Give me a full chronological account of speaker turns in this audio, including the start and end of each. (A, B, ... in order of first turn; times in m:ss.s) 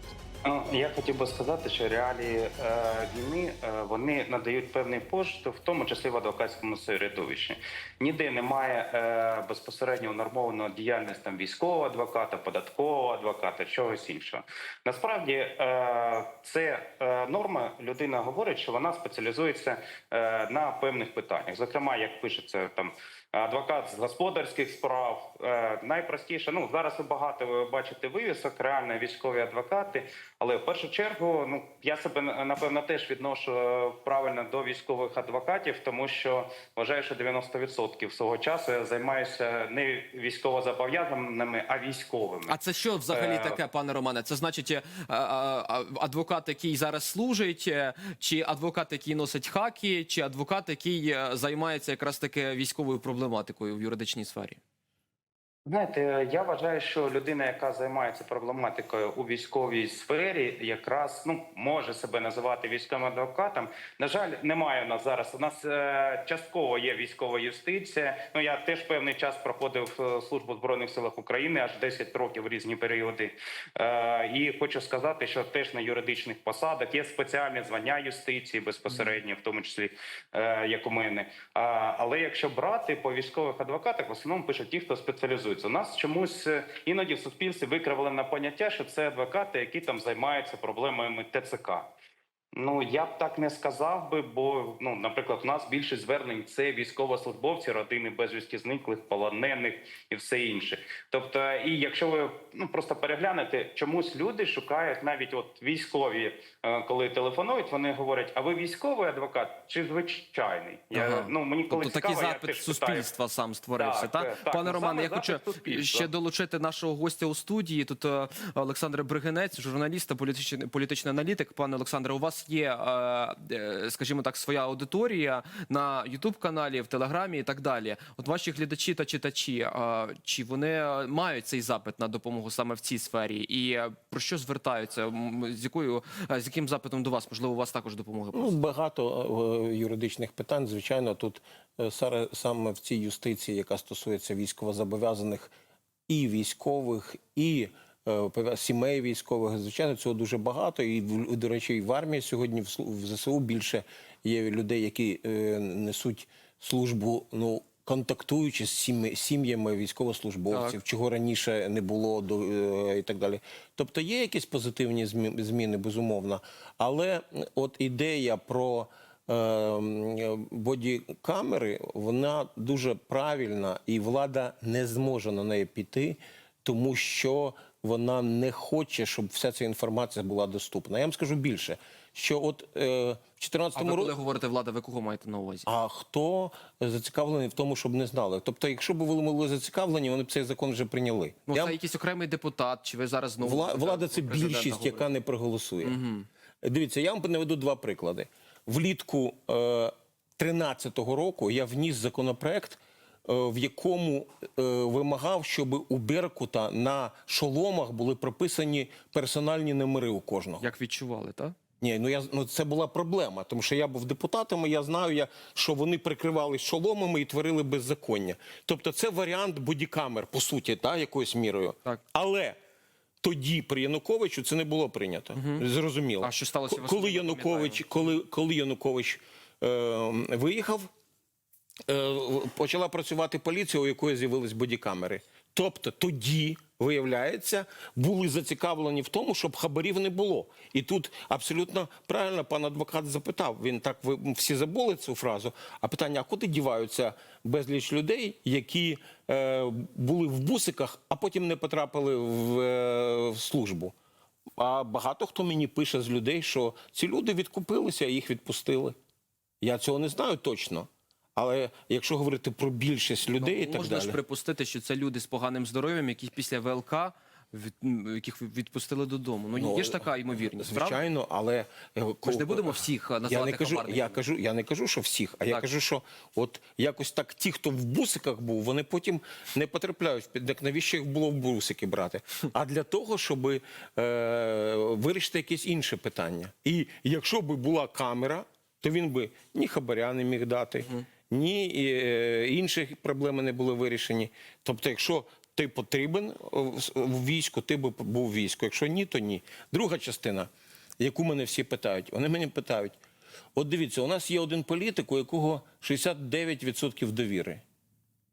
0:00.4-0:42.5 A
0:42.5-0:54.6 B
0:43.1-0:43.6 A
0:55.6-1:31.9 A
1:18.9-1:19.2 B
1:32.5-1:53.1 A
1:50.9-2:18.5 B
1:53.7-1:56.1 A
2:18.3-2:25.5 C
2:26.1-3:04.1 C
2:40.5-2:40.8 B
3:03.7-3:05.6 B
3:05.6-3:11.8 C
3:11.5-3:15.0 B
3:13.4-3:16.0 C
3:15.8-3:16.3 B
3:16.6-3:30.7 C
3:30.6-3:31.6 B
3:31.8-3:42.6 C
3:43.2-3:50.9 C
3:45.3-3:45.6 B
3:46.2-3:48.0 B
3:51.9-4:13.9 C
4:14.6-4:19.0 C
4:19.6-4:24.2 C
4:23.4-4:31.0 B
4:29.5-5:03.0 C
4:32.2-4:34.2 B
5:03.6-5:07.6 C